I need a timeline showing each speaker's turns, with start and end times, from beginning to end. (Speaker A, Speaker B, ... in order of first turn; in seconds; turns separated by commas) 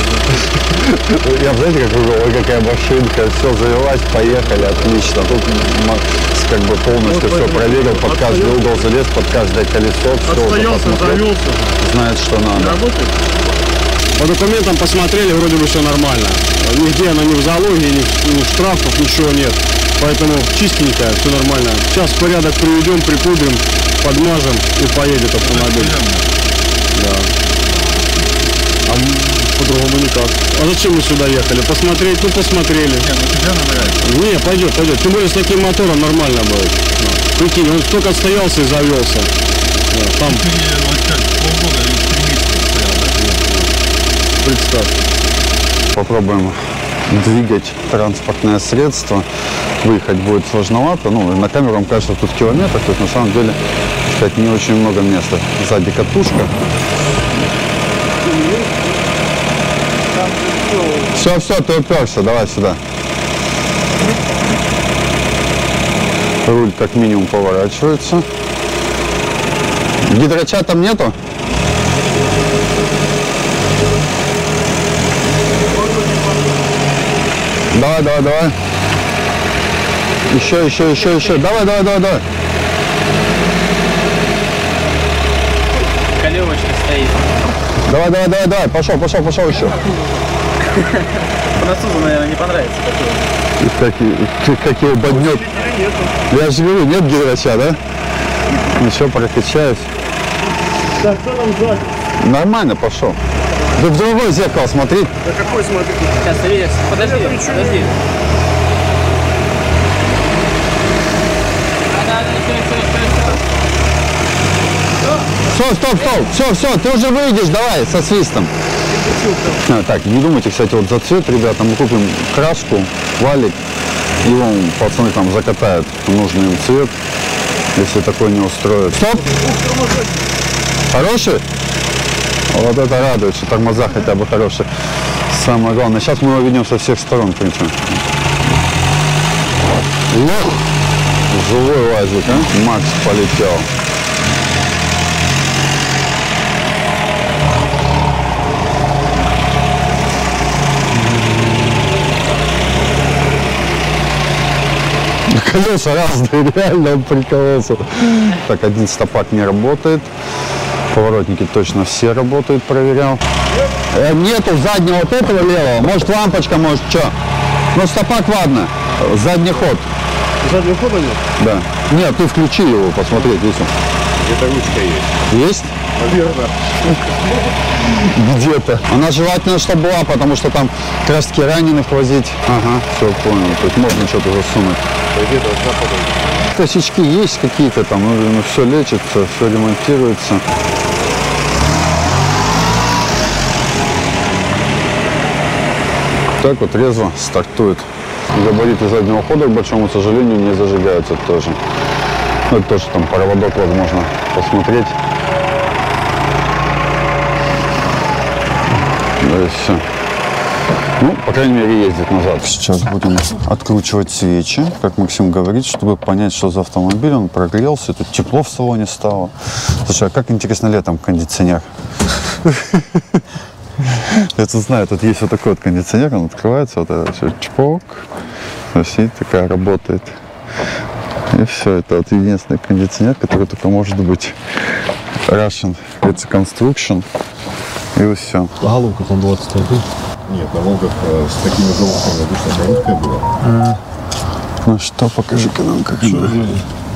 Speaker A: 0.6-11.3, Speaker B: 7.1-8.5, Speaker B: 10.3-11.7, Speaker A: 11.8-12.8, Speaker B: 12.6-13.1, Speaker B: 14.2-25.9, Speaker A: 25.4-26.2, Speaker B: 26.9-27.3, Speaker B: 28.9-33.0, Speaker A: 33.0-34.1, Speaker B: 34.0-39.3, Speaker B: 39.9-40.4, Speaker A: 40.2-43.1, Speaker A: 45.9-49.2, Speaker A: 49.8-56.5, Speaker A: 61.1-62.8, Speaker A: 66.4-68.3, Speaker A: 70.0-71.2, Speaker A: 77.7-78.5, Speaker A: 80.3-82.2, Speaker C: 86.2-87.2, Speaker A: 87.9-89.8, Speaker C: 91.6-93.2, Speaker A: 93.6-95.5, Speaker B: 95.2-95.6, Speaker D: 95.5-95.9, Speaker A: 96.3-97.8, Speaker A: 98.7-99.9, Speaker D: 101.0-101.9, Speaker A: 102.2-103.2, Speaker A: 103.7-105.1, Speaker B: 105.2-106.2, Speaker C: 106.2-107.9, Speaker D: 106.9-107.9, Speaker C: 111.9-113.4, Speaker A: 115.5-118.5, Speaker A: 119.6-123.6, Speaker A: 124.2-127.0, Speaker A: 127.8-129.3, Speaker A: 130.9-131.4, Speaker A: 132.5-134.7, Speaker A: 135.3-138.0, Speaker A: 140.1-140.6, Speaker A: 141.3-143.7, Speaker A: 155.3-160.1, Speaker A: 160.9-163.2, Speaker A: 163.9-167.1, Speaker A: 167.7-169.9, Speaker B: 170.4-171.2, Speaker A: 171.4-173.7, Speaker E: 174.2-175.2, Speaker A: 175.3-175.7, Speaker E: 175.9-176.5, Speaker A: 177.8-184.8, Speaker E: 185.1-186.3, Speaker A: 186.5-190.4, Speaker A: 196.4-201.6, Speaker A: 202.5-205.0, Speaker A: 209.2-209.8, Speaker A: 211.0-221.7, Speaker A: 222.4-223.2, Speaker A: 223.8-228.1, Speaker A: 228.7-230.2, Speaker A: 231.3-234.4, Speaker A: 235.3-237.1, Speaker A: 237.9-238.5, Speaker D: 238.6-239.8, Speaker E: 240.3-243.2, Speaker D: 243.4-243.8, Speaker A: 244.6-246.4, Speaker D: 246.0-246.6